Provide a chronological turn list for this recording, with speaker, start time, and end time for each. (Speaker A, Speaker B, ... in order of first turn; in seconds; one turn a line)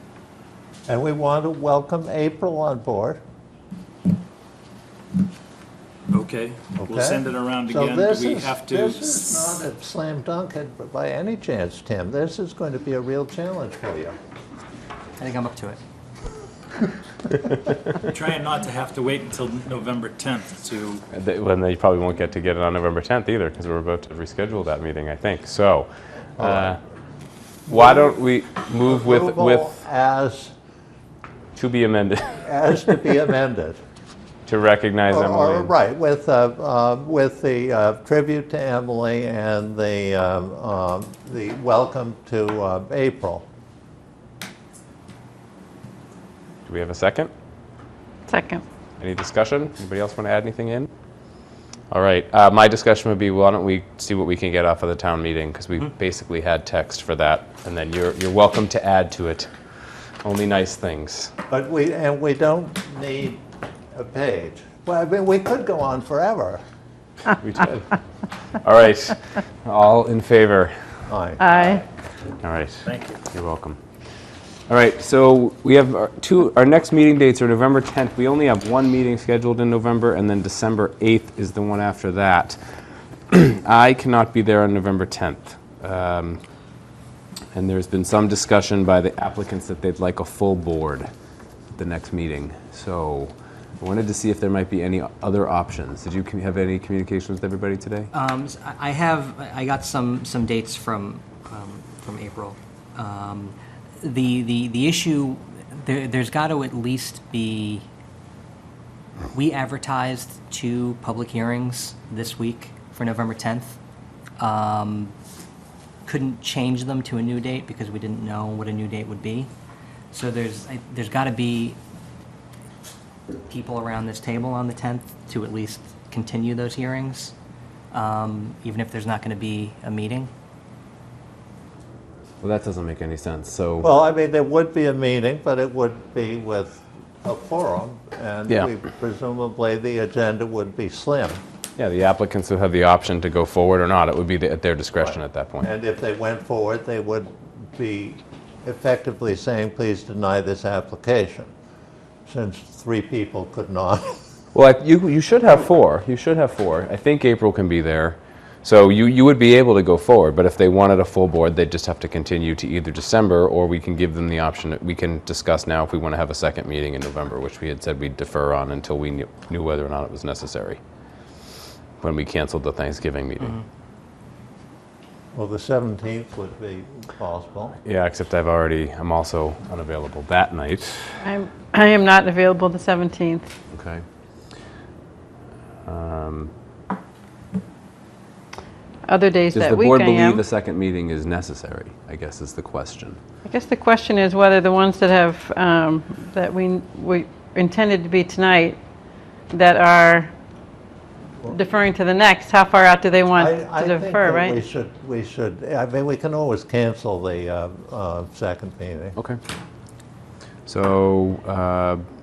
Speaker A: 0.9-3.2
Speaker B: 6.1-9.3
Speaker A: 6.8-14.2
Speaker C: 15.2-15.8
Speaker B: 18.1-21.0
Speaker D: 21.1-26.8
Speaker A: 26.4-26.8
Speaker A: 27.7-28.2
Speaker D: 27.7-29.8
Speaker A: 28.9-30.5
Speaker D: 31.6-32.4
Speaker A: 32.4-33.8
Speaker D: 34.5-35.7
Speaker A: 35.1-43.5
Speaker D: 46.6-47.3
Speaker E: 48.3-48.6
Speaker D: 49.0-50.9
Speaker D: 51.9-59.5
Speaker D: 60.2-61.3
Speaker A: 61.5-63.4
Speaker A: 63.9-66.6
Speaker D: 67.4-67.9
Speaker D: 68.6-70.7
Speaker A: 71.1-71.5
Speaker E: 71.4-71.8
Speaker D: 72.4-73.8
Speaker D: 74.7-82.6
Speaker D: 83.3-86.4
Speaker D: 87.5-91.1
Speaker D: 91.8-98.1
Speaker C: 98.1-107.9
Speaker C: 109.3-113.8
Speaker C: 114.4-115.1
Speaker C: 116.0-119.5
Speaker C: 120.1-121.8
Speaker C: 123.5-127.3
Speaker C: 127.9-130.3
Speaker D: 132.4-133.9
Speaker A: 133.8-141.4
Speaker D: 141.8-145.7
Speaker A: 145.0-151.5
Speaker A: 152.2-154.2
Speaker D: 154.5-170.8
Speaker D: 172.0-173.6
Speaker A: 175.3-177.8
Speaker D: 177.8-181.2
Speaker E: 181.2-183.5
Speaker D: 183.7-184.0
Speaker D: 185.8-186.5
Speaker E: 189.1-190.4
Speaker D: 189.5-193.2
Speaker E: 193.4-198.8
Speaker E: 199.5-200.3
Speaker E: 201.5-204.6
Speaker A: 203.4-209.2
Speaker D: 210.7-212.0